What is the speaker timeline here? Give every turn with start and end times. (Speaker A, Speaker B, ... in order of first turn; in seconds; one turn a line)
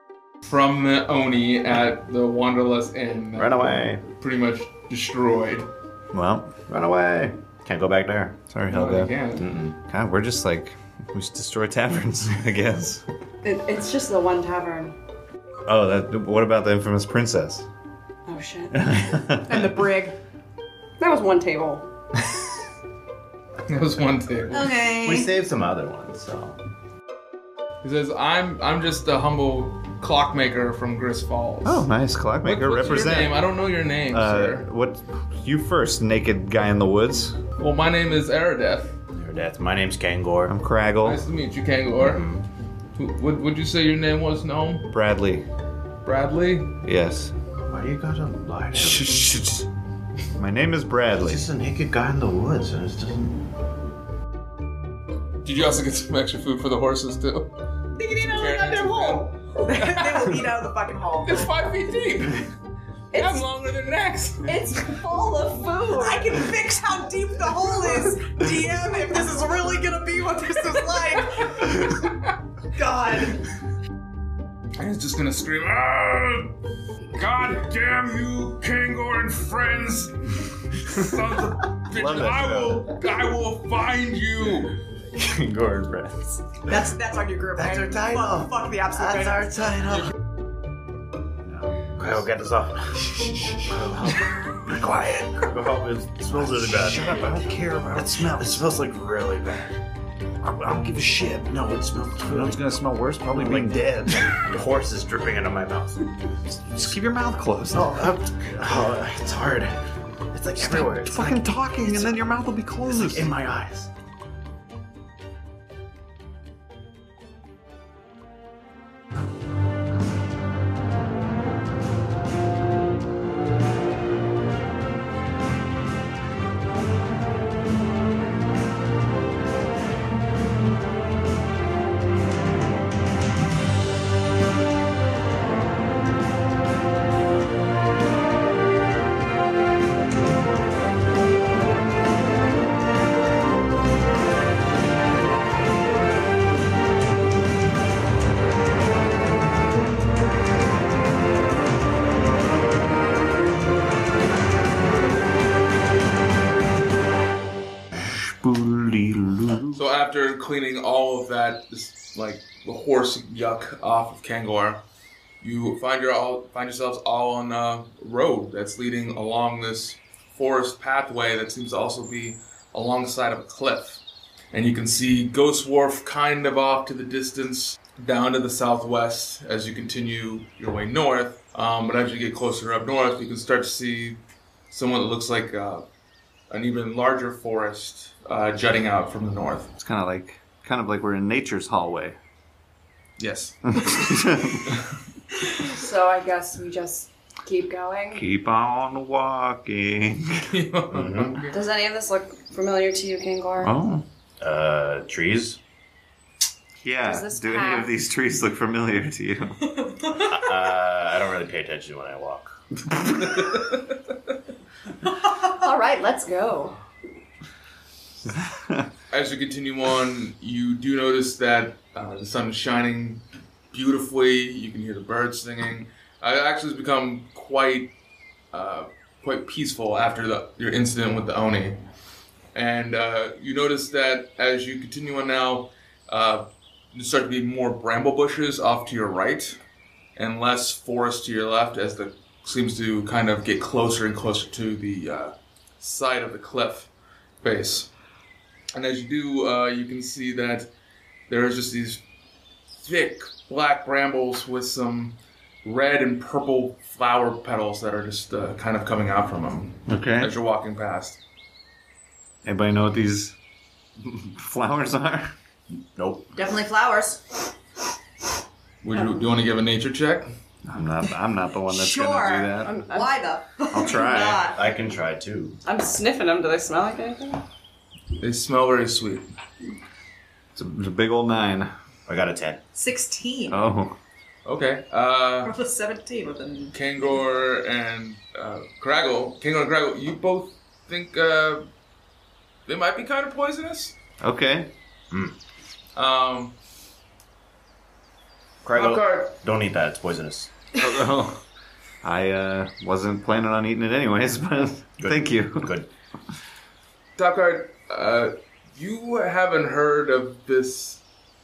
Speaker A: 0.4-5.7
Speaker B: 3.3-4.0
Speaker C: 6.1-6.5
Speaker B: 6.7-8.4
Speaker C: 8.5-9.1
Speaker A: 8.7-9.4
Speaker B: 9.4-9.8
Speaker C: 9.8-13.0
Speaker D: 13.4-14.9
Speaker C: 15.7-17.7
Speaker D: 18.3-19.1
Speaker C: 18.7-19.8
Speaker E: 19.4-20.2
Speaker D: 21.0-21.9
Speaker A: 23.7-24.6
Speaker E: 24.5-25.3
Speaker B: 24.8-26.6
Speaker A: 27.8-31.9
Speaker C: 31.6-33.5
Speaker A: 32.4-34.7
Speaker C: 34.1-37.4
Speaker A: 37.6-38.9
Speaker B: 39.1-40.5
Speaker C: 40.5-41.2
Speaker A: 41.0-42.2
Speaker B: 42.0-42.5
Speaker A: 42.9-44.9
Speaker C: 44.9-45.4
Speaker A: 46.0-46.8
Speaker C: 46.8-47.3
Speaker B: 47.7-49.2
Speaker A: 49.0-49.6
Speaker C: 50.4-51.4
Speaker B: 51.2-53.5
Speaker A: 55.4-57.5
Speaker E: 57.9-61.5
Speaker A: 58.3-60.4
Speaker A: 61.2-62.5
Speaker D: 63.1-63.4
Speaker A: 63.1-64.6
Speaker D: 64.5-66.4
Speaker E: 66.0-72.0
Speaker E: 72.7-73.4
Speaker A: 74.8-76.5
Speaker A: 77.2-84.8
Speaker C: 81.9-83.0
Speaker B: 85.2-86.4
Speaker E: 86.7-89.6
Speaker C: 87.6-88.2
Speaker B: 87.9-90.0
Speaker B: 92.0-93.1
Speaker B: 93.7-99.7
Speaker C: 94.7-95.3
Speaker C: 96.3-98.6
Speaker C: 100.5-101.4
Speaker B: 101.2-102.6
Speaker C: 102.2-104.5
Speaker B: 103.3-106.1
Speaker C: 106.7-108.0
Speaker B: 107.7-109.8
Speaker B: 110.3-112.2
Speaker C: 110.5-113.3
Speaker B: 112.8-113.9
Speaker C: 158.0-159.8
Speaker A: 159.7-164.8
Speaker A: 165.4-174.0
Speaker A: 174.5-185.9
Speaker A: 186.5-189.7
Speaker C: 189.8-192.2
Speaker A: 193.2-193.6
Speaker C: 193.7-194.7
Speaker D: 195.4-198.2
Speaker C: 198.1-200.5
Speaker A: 200.5-201.6
Speaker B: 200.9-201.4
Speaker D: 201.5-203.7
Speaker C: 203.6-204.0
Speaker B: 204.4-205.6
Speaker C: 206.8-209.6
Speaker D: 207.0-207.9
Speaker E: 209.7-210.4
Speaker B: 210.2-212.6
Speaker A: 213.2-213.8
Speaker E: 215.1-215.4
Speaker D: 215.6-216.8
Speaker C: 218.3-218.9
Speaker A: 219.1-227.9
Speaker A: 228.5-231.8
Speaker A: 232.5-239.6
Speaker A: 240.2-246.9
Speaker A: 247.4-247.9
Speaker A: 248.7-250.7
Speaker A: 251.3-252.0
Speaker A: 252.8-261.2
Speaker C: 259.9-260.3
Speaker C: 262.4-263.4
Speaker C: 264.0-265.3
Speaker B: 265.9-266.4
Speaker E: 266.3-267.5
Speaker A: 268.8-270.3
Speaker D: 268.9-269.2
Speaker C: 270.6-272.8
Speaker E: 271.7-274.6
Speaker D: 272.6-273.1
Speaker C: 273.7-274.5
Speaker B: 274.5-275.6
Speaker D: 275.6-277.4
Speaker A: 278.2-279.2
Speaker C: 280.6-281.7
Speaker B: 282.1-282.6
Speaker E: 282.7-283.6
Speaker C: 283.5-283.9
Speaker A: 284.4-285.5
Speaker E: 285.4-286.7
Speaker A: 286.7-291.7
Speaker A: 292.7-294.0
Speaker C: 294.2-294.7
Speaker B: 295.1-295.4
Speaker A: 295.9-296.5
Speaker B: 298.6-300.5
Speaker A: 298.7-299.4
Speaker C: 300.8-301.4
Speaker C: 302.0-305.7
Speaker B: 305.0-305.9
Speaker A: 307.2-311.0